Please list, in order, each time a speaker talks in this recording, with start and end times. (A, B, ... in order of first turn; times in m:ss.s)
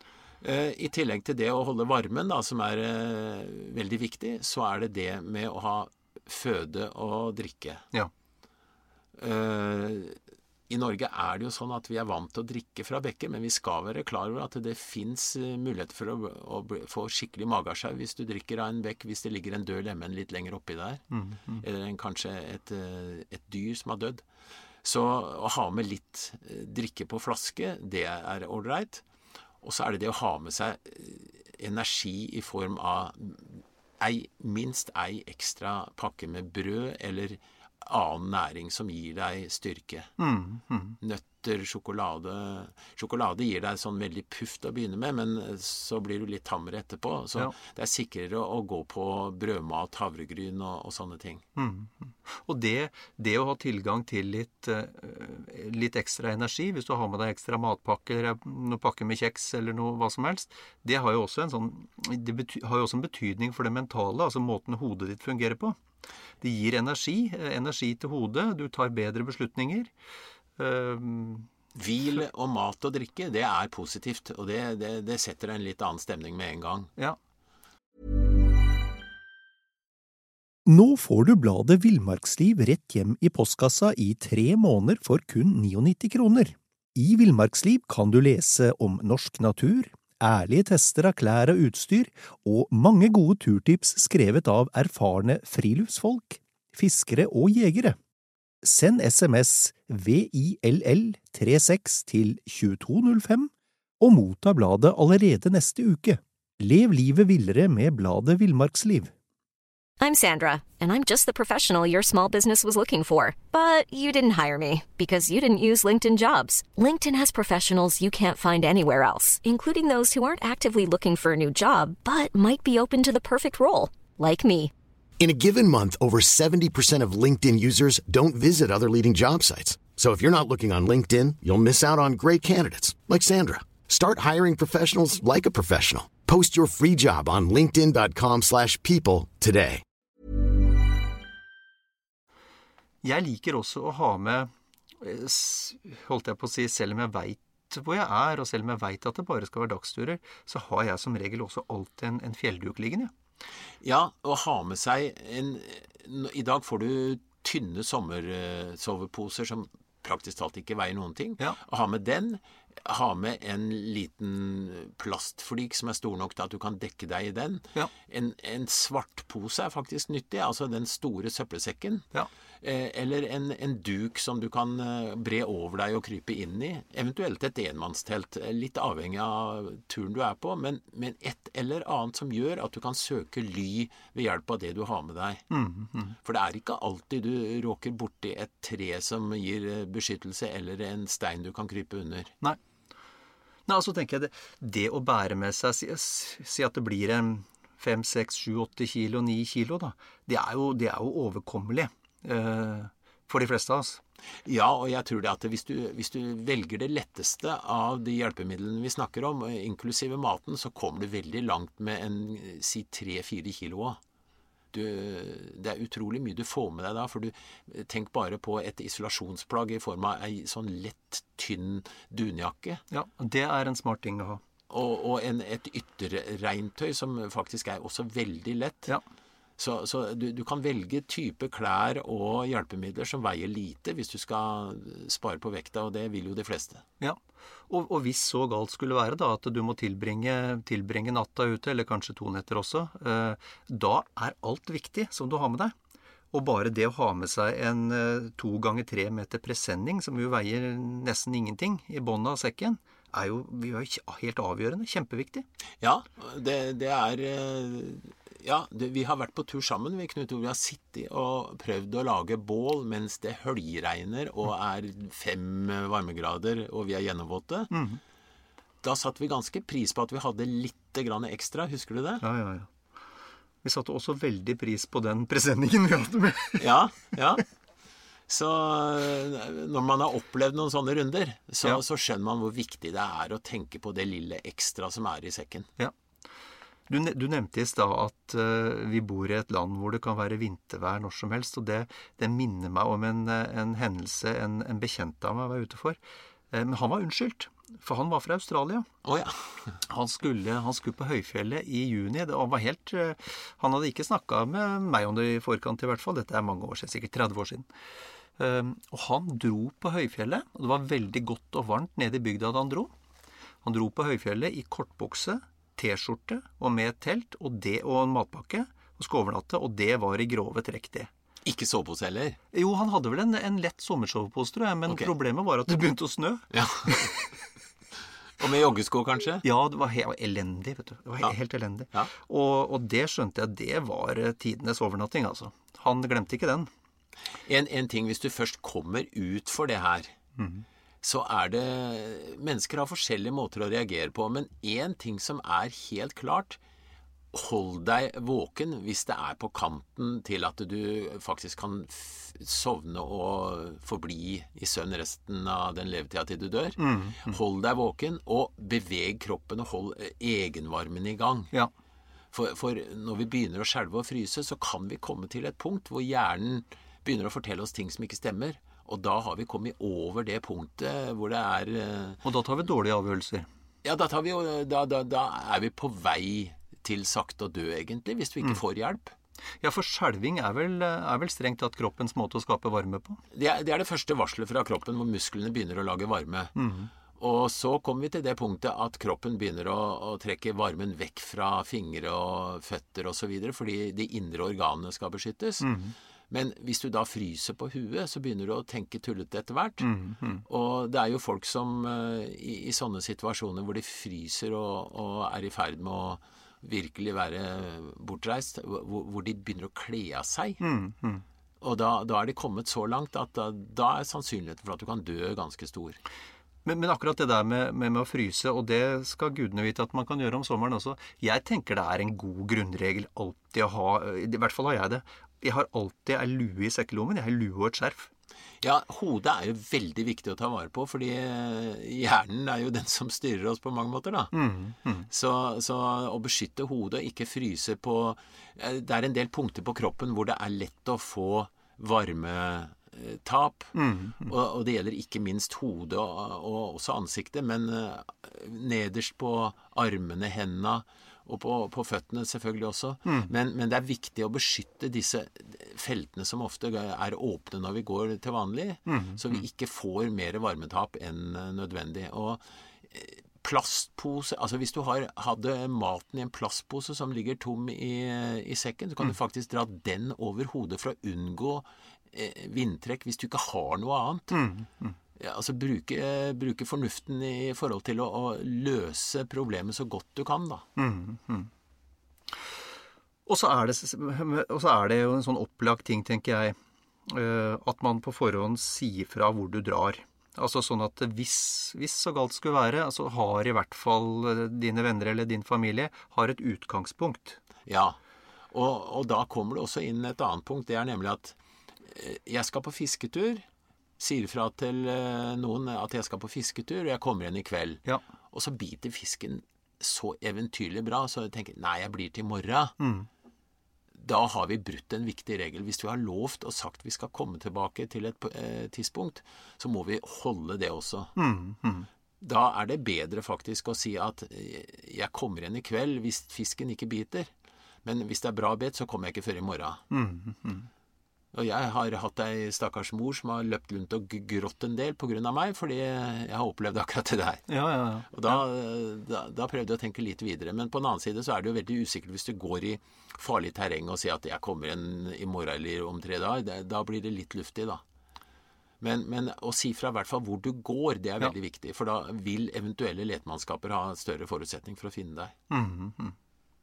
0:00.4-0:07.8 A
0:09.2-0:10.2 A
0:10.7-0:21.0 A
0:21.1-0:21.6 B
0:21.6-0:24.2 A
0:24.8-0:29.0 A
0:29.6-0:40.1 A
0:40.2-0:41.0 B
0:41.0-0:51.4 A
0:51.6-1:05.8 B
1:06.4-1:09.9 B
1:10.6-1:11.5 B
1:11.8-1:16.9 A
1:20.7-1:38.0 C
1:38.6-1:49.1 C
1:50.0-2:04.7 D
2:05.2-2:19.8 E
2:23.0-2:33.1 B
2:33.8-2:52.1 A
2:52.6-3:05.4 A
3:05.5-3:06.2 B
3:06.2-3:12.3 A
3:13.7-3:24.0 B
3:24.4-3:34.0 A
3:34.7-3:42.8 A
3:42.9-3:44.4 B
3:44.7-3:48.9 A
3:49.6-3:56.8 A
3:57.7-4:05.8 B
4:06.3-4:15.4 B
4:15.8-4:27.7 A
4:27.7-4:28.0 B
4:28.8-4:32.2 A
4:32.2-4:32.7 B
4:33.6-4:36.7 B
4:36.6-4:37.4 A
4:38.3-4:45.7 A
4:46.9-4:56.0 B
4:56.5-4:58.9 B
4:59.0-4:59.8 A
4:59.9-5:07.7 B
5:08.4-5:12.9 B
5:13.6-5:21.1 B
5:21.4-5:22.4 A
5:22.5-5:27.3 B
5:26.5-5:27.2 A
5:28.4-5:29.4 A
5:29.4-5:36.7 B
5:37.5-5:40.1 A
5:40.4-5:40.6 B
5:41.0-5:46.6 A
5:47.3-6:01.5 A
5:56.8-5:57.4 B
6:02.3-6:12.2 A
6:12.2-6:13.5 B
6:13.8-6:19.2 A
6:19.6-6:23.2 B
6:23.3-6:26.6 A
6:26.6-6:26.9 B
6:27.1-6:35.7 A
6:35.6-6:35.9 B
6:36.3-6:39.9 A
6:39.8-6:40.4 B
6:40.5-6:50.6 A
6:50.6-6:51.2 B
6:51.6-6:56.0 A
6:56.6-7:08.1 B
7:08.6-7:14.3 A
7:14.3-7:15.1 B
7:15.1-7:54.4 A
7:23.8-7:24.3 B
7:33.1-7:33.3 B
7:38.9-7:39.4 B
7:54.3-7:55.0 B
7:55.2-8:00.6 A
8:00.8-8:01.5 B
8:03.3-8:06.6 B
8:07.1-8:17.4 B
8:17.7-8:18.0 A
8:18.5-8:23.5 A
8:24.0-8:32.8 A
8:32.8-8:33.1 B
8:34.0-8:41.1 A
8:41.2-8:41.9 B
8:42.2-8:47.3 A
8:47.8-8:49.8 A
8:49.9-8:50.7 B
8:51.3-8:57.5 A
8:57.5-8:58.4 B
8:58.1-9:07.8 A
9:08.8-9:15.3 A
9:15.5-9:16.2 B